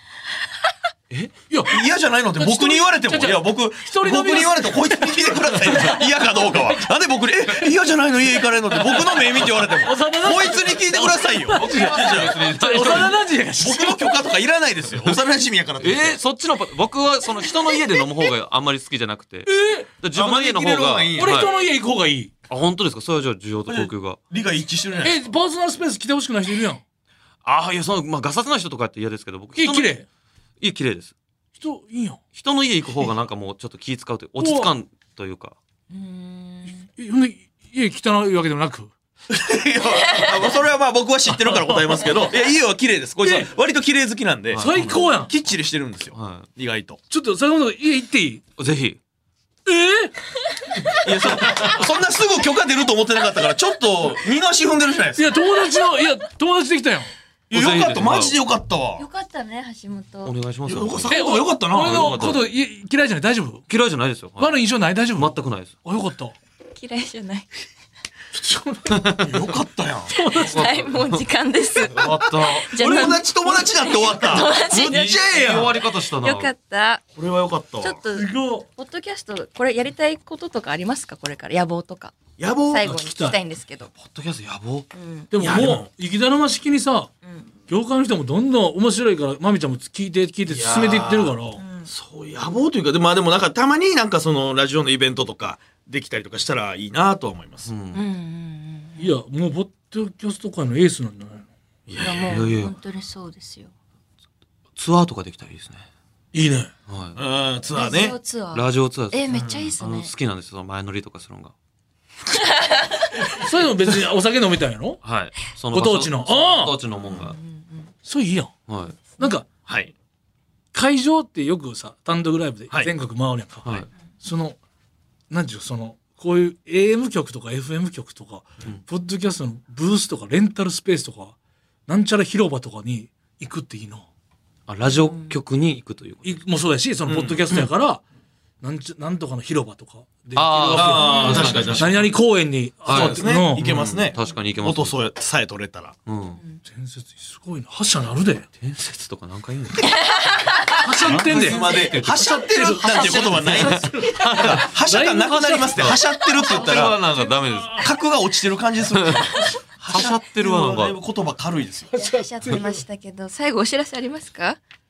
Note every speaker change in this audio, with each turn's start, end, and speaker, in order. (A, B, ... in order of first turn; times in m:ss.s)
0:01.5-0:01.8 A
0:01.7-0:13.0 B
0:02.4-0:06.8 A
0:09.6-0:14.1 A
0:11.5-0:13.2 C
0:13.6-0:16.2 B
0:15.8-0:21.5 C
0:19.5-0:19.9 A
0:20.1-0:21.5 B
0:21.1-0:22.3 A
0:22.5-0:24.2 C
0:23.7-0:25.2 B
0:25.0-0:26.8 A
0:27.4-0:30.0 C
0:29.6-0:30.1 A
0:30.6-0:31.1 C
0:31.6-0:32.2 A
0:32.4-0:35.6 C
0:34.4-0:34.7 A
0:35.9-0:36.9 D
0:37.0-0:38.9 A
0:39.3-0:47.0 B
0:40.1-0:40.4 D
0:41.3-0:42.2 A
0:43.2-0:43.5 A
0:44.5-0:45.0 C
0:44.6-0:45.3 A
0:46.1-0:46.5 C
0:47.1-0:48.4 A
0:48.6-0:49.0 C
0:49.7-0:50.2 A
0:51.0-0:55.4 B
0:55.2-0:57.1 A
0:57.5-0:59.1 B
0:57.5-0:58.4 C
0:59.0-1:00.3 D
1:00.2-1:01.2 C
1:00.7-1:02.3 B
1:01.1-1:03.6 A
1:01.7-1:02.4 C
1:03.7-1:04.6 C
1:04.4-1:06.4 A
1:05.2-1:05.7 C
1:06.7-1:07.6 D
1:08.3-1:09.2 A
1:08.9-1:09.4 C
1:09.2-1:10.1 B
1:10.1-1:10.7 A
1:10.2-1:17.0 D
1:10.4-1:11.2 C
1:11.9-1:13.1 C
1:12.1-1:15.8 B
1:14.9-1:16.5 C
1:17.2-1:18.0 B
1:17.8-1:22.2 D
1:18.2-1:18.7 A
1:22.4-1:22.9 B
1:22.7-1:23.9 D
1:22.8-1:23.4 A
1:23.9-1:24.9 C
1:24.9-1:25.3 D
1:25.3-1:27.1 A
1:25.4-1:25.9 B
1:27.2-1:27.5 D
1:27.7-1:31.6 A
1:30.5-1:31.4 B
1:31.6-1:31.9 D
1:31.9-1:37.7 B
1:37.7-1:38.0 C
1:37.9-1:39.2 D
1:39.0-1:41.5 A
1:41.9-1:42.4 B
1:42.0-1:43.7 D
1:42.2-1:42.8 C
1:44.8-1:45.9 C
1:46.3-1:46.7 A
1:46.9-1:47.2 C
1:47.2-1:48.2 B
1:47.7-1:50.1 D
1:48.5-1:51.5 C
1:49.3-1:49.7 B
1:52.5-1:53.1 D
1:53.3-1:55.0 A
1:55.0-1:57.4 C
1:55.7-1:56.8 A
1:57.1-1:57.3 B
1:57.1-1:57.9 D
1:58.0-1:58.5 A
1:58.7-1:59.0 C
1:59.2-1:59.5 A
1:59.7-1:59.9 B
2:00.7-2:04.6 A
2:05.3-2:11.4 A
2:11.9-2:14.1 A
2:14.7-2:16.4 C
2:14.9-2:15.4 D
2:16.2-2:18.0 A
2:17.1-2:17.4 B
2:18.6-2:23.6 A
2:20.4-2:22.1 C
2:20.7-2:22.1 B
2:21.0-2:21.7 D
2:22.8-2:25.0 C
2:22.9-2:26.0 B
2:26.1-2:26.4 C
2:26.6-2:28.5 A
2:28.6-2:30.0 C
2:30.0-2:30.8 D
2:30.8-2:36.0 A
2:31.0-2:34.7 C
2:31.0-2:37.1 B
2:35.6-2:37.9 C
2:37.2-2:37.8 A
2:37.7-2:42.1 B
2:38.9-2:41.0 C
2:41.9-2:42.8 A
2:42.0-2:44.6 D